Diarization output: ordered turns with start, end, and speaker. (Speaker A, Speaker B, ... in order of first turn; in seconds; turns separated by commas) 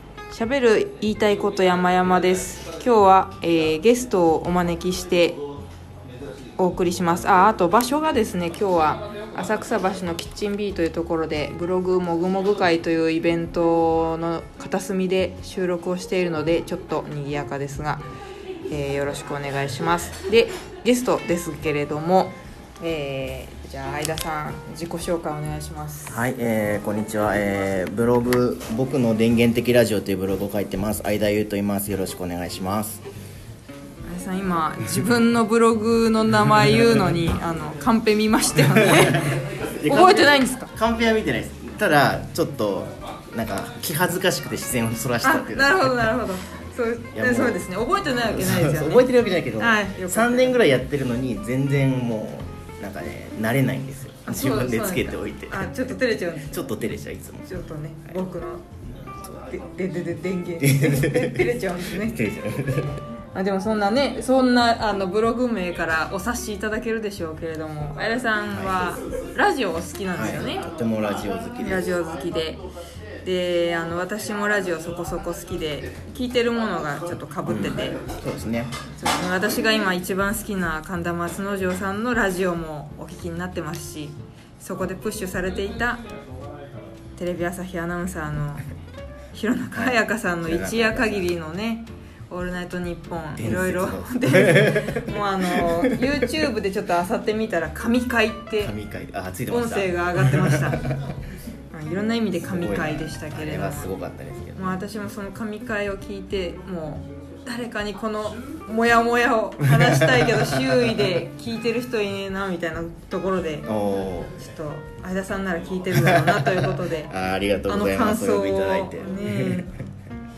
Speaker A: 0.3-5.4, Speaker A: 6.6-18.0, Speaker A: 18.7-26.2, Speaker B: 26.1-33.0, Speaker A: 34.0-40.7, Speaker B: 38.6-46.1, Speaker A: 45.2-50.6, Speaker B: 47.1-47.6, Speaker B: 48.2-57.5, Speaker A: 54.2-56.7, Speaker A: 57.4-58.6, Speaker A: 59.3-62.2, Speaker B: 60.6-63.0, Speaker A: 63.3-70.7, Speaker B: 68.5-68.8, Speaker B: 70.1-72.0, Speaker A: 71.6-72.6, Speaker A: 73.2-78.0, Speaker B: 77.4-78.7, Speaker A: 79.0-86.0, Speaker A: 87.2-88.6, Speaker A: 89.3-98.7, Speaker B: 89.7-91.3, Speaker B: 93.3-96.3, Speaker B: 98.6-100.9, Speaker A: 99.5-100.8, Speaker A: 101.7-103.9, Speaker B: 102.4-104.8, Speaker A: 104.5-113.7, Speaker B: 109.6-111.2, Speaker B: 113.7-114.3, Speaker A: 114.4-117.1, Speaker B: 115.9-119.7, Speaker A: 117.7-119.7